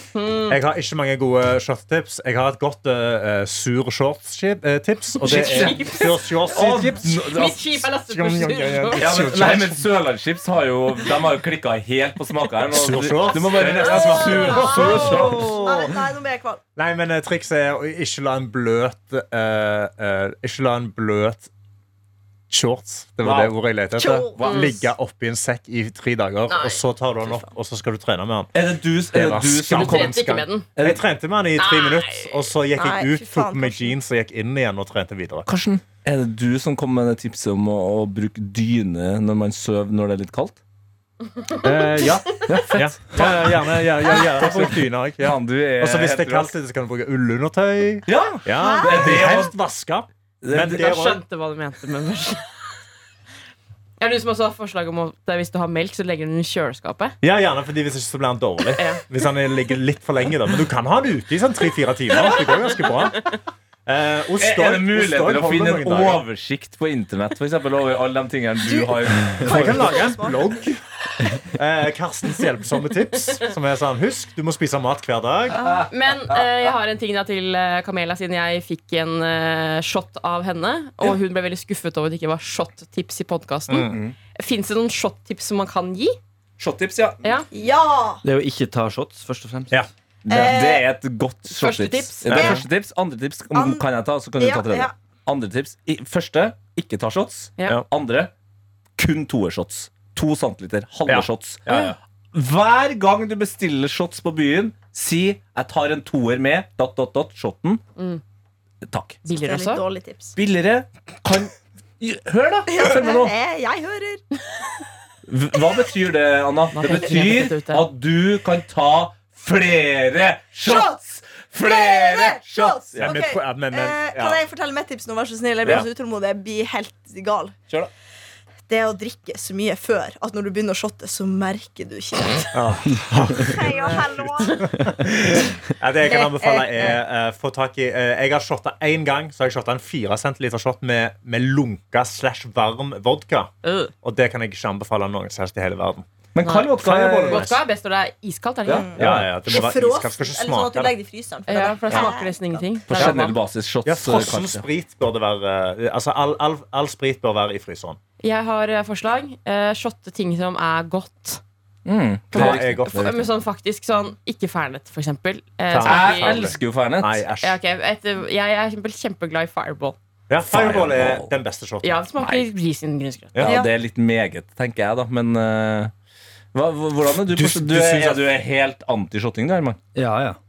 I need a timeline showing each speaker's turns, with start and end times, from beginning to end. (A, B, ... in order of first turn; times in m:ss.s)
0:00.1-0:00.6 A
0:00.5-0:07.5 B
0:05.2-0:07.6 C
0:05.2-0:09.4 A
0:08.0-0:09.8 B
0:09.0-0:15.6 C
0:12.7-0:15.9 B
0:13.8-0:16.6 D
0:16.8-0:21.5 B
0:22.5-0:28.5 B
0:23.2-0:23.5 C
0:24.0-0:24.4 D
0:24.4-0:24.8 C
0:24.4-0:24.8 A
0:26.5-0:26.8 A
0:28.5-0:31.0 C
0:29.1-0:35.5 B
0:29.7-0:30.6 A
0:31.6-0:32.5 A
0:32.7-0:34.0 D
0:35.4-0:40.6 C
0:41.6-0:51.2 B
0:42.5-0:46.5 C
0:48.0-0:49.5 C
0:48.6-0:49.1 D
0:50.4-0:50.9 C
0:50.7-0:52.5 A
0:54.0-0:57.1 A
0:57.2-1:06.2 B
0:58.8-0:59.0 A
1:04.4-1:10.1 C
1:08.6-1:10.5 D
1:09.4-1:10.8 B
1:11.4-1:15.7 B
1:15.5-1:16.7 C
1:15.9-1:26.2 A
1:23.7-1:24.0 B
1:23.9-1:24.1 C
1:26.6-1:27.2 C
1:27.5-1:28.2 D
1:28.2-1:29.8 E
1:30.2-1:38.3 C
1:30.3-1:30.8 D
1:31.5-1:32.3 A
1:32.3-1:32.6 B
1:32.3-1:32.6 D
1:33.5-1:33.8 D
1:34.4-1:34.9 D
1:39.0-1:41.6 C
1:41.1-1:42.0 B
1:42.3-1:47.8 C
1:48.8-1:49.2 C
1:49.2-1:49.8 A
1:49.4-1:50.3 D
1:50.4-1:53.3 C
1:52.7-1:54.2 D
1:55.3-2:03.2 C
1:56.7-1:57.8 A
2:00.6-2:01.0 D
2:01.6-2:07.5 D
2:03.0-2:04.4 B
2:08.7-2:12.6 D
2:12.5-2:23.5 B
2:13.4-2:14.7 D
2:16.0-2:17.0 D
2:23.6-2:23.9 A
2:24.0-2:26.0 B
2:26.3-2:27.5 C
2:26.4-2:26.7 A
2:26.7-2:27.6 B
2:27.3-2:28.9 A
2:28.6-2:29.3 C
2:28.7-2:32.6 D
2:29.0-2:30.9 B
2:31.5-2:33.4 A
2:32.9-2:34.6 C
2:33.0-2:33.2 B
2:33.8-2:38.0 B
2:38.2-2:41.4 A
2:41.8-2:43.3 C
2:42.3-2:46.5 A
2:42.3-2:43.1 B
2:45.7-2:47.6 B
2:45.8-2:47.2 C
2:47.4-2:50.0 A
2:50.3-2:52.0 B
2:50.4-2:51.3 C
2:51.8-2:53.3 A
2:52.2-2:52.5 C
2:53.3-2:53.6 B
2:53.4-2:55.9 C
2:53.4-2:53.7 D
2:56.5-2:59.8 C
2:57.3-2:58.2 B
2:59.9-3:00.4 E